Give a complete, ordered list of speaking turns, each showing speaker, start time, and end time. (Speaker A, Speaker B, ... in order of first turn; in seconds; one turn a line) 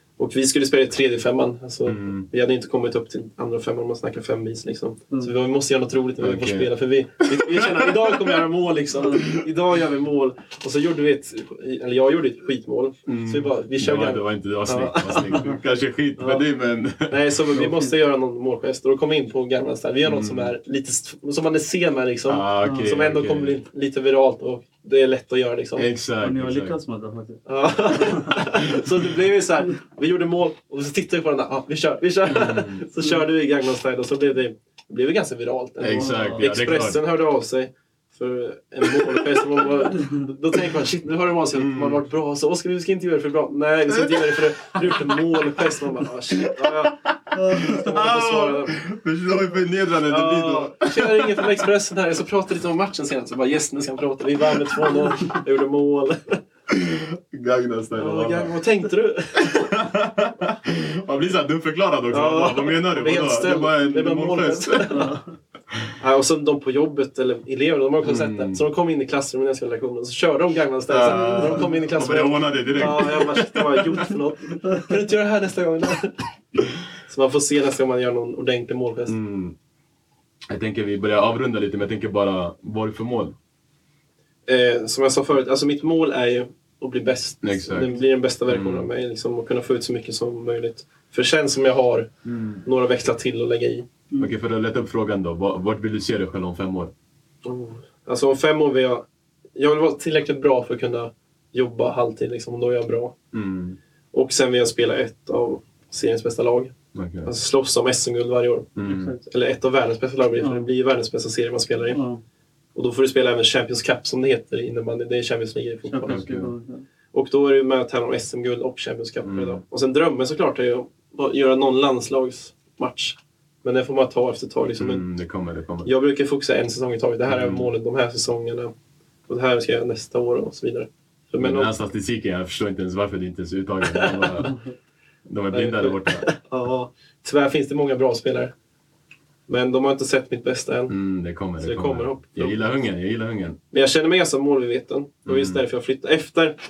Speaker A: 0.2-15.6
Speaker B: 1.9-2.3
Speaker B: 6.2-6.7
Speaker B: 7.3-8.4
Speaker B: 13.1-17.4
Speaker A: 16.2-16.5
Speaker A: 17.1-25.9
Speaker C: 17.5-17.9
Speaker B: 20.1-20.5
Speaker B: 22.3-23.6
Speaker C: 22.6-22.9
Speaker B: 25.8-26.8
Speaker C: 26.2-28.4
Speaker A: 27.5-48.8
Speaker B: 32.3-32.8
Speaker B: 35.8-37.0
Speaker C: 35.9-36.9
Speaker B: 41.6-42.0
Speaker B: 43.9-45.6
Speaker B: 46.4-51.5
Speaker A: 50.1-56.4
Speaker B: 56.7-58.5
Speaker A: 58.0-59.7
Speaker B: 59.4-65.1
Speaker A: 62.1-65.2
Speaker C: 64.9-65.2
Speaker A: 66.0-76.2
Speaker B: 68.0-68.6
Speaker B: 70.9-74.1
Speaker C: 71.1-71.8
Speaker A: 77.0-79.2
Speaker B: 79.1-79.6
Speaker B: 80.5-83.3
Speaker A: 84.5-92.1
Speaker B: 87.4-87.9
Speaker B: 88.5-88.9
Speaker B: 92.2-92.6
Speaker A: 92.6-93.9
Speaker B: 94.2-96.9
Speaker A: 97.5-103.2
Speaker B: 103.3-103.8
Speaker A: 104.1-106.7
Speaker B: 106.9-107.3
Speaker A: 107.2-112.0
Speaker B: 108.8-109.1
Speaker C: 108.8-109.2
Speaker C: 110.4-110.7
Speaker C: 111.9-112.2
Speaker A: 112.8-116.3
Speaker C: 115.9-116.9
Speaker B: 116.1-116.5
Speaker A: 117.1-125.0
Speaker B: 119.2-119.6
Speaker B: 124.8-125.9
Speaker A: 125.8-128.7
Speaker B: 127.3-127.7
Speaker A: 129.3-131.7
Speaker B: 131.4-134.6
Speaker A: 133.9-134.3
Speaker B: 135.3-136.3
Speaker A: 135.5-138.5
Speaker A: 139.5-140.9
Speaker B: 140.9-143.6
Speaker A: 141.6-142.7
Speaker A: 143.7-146.6
Speaker B: 145.3-145.6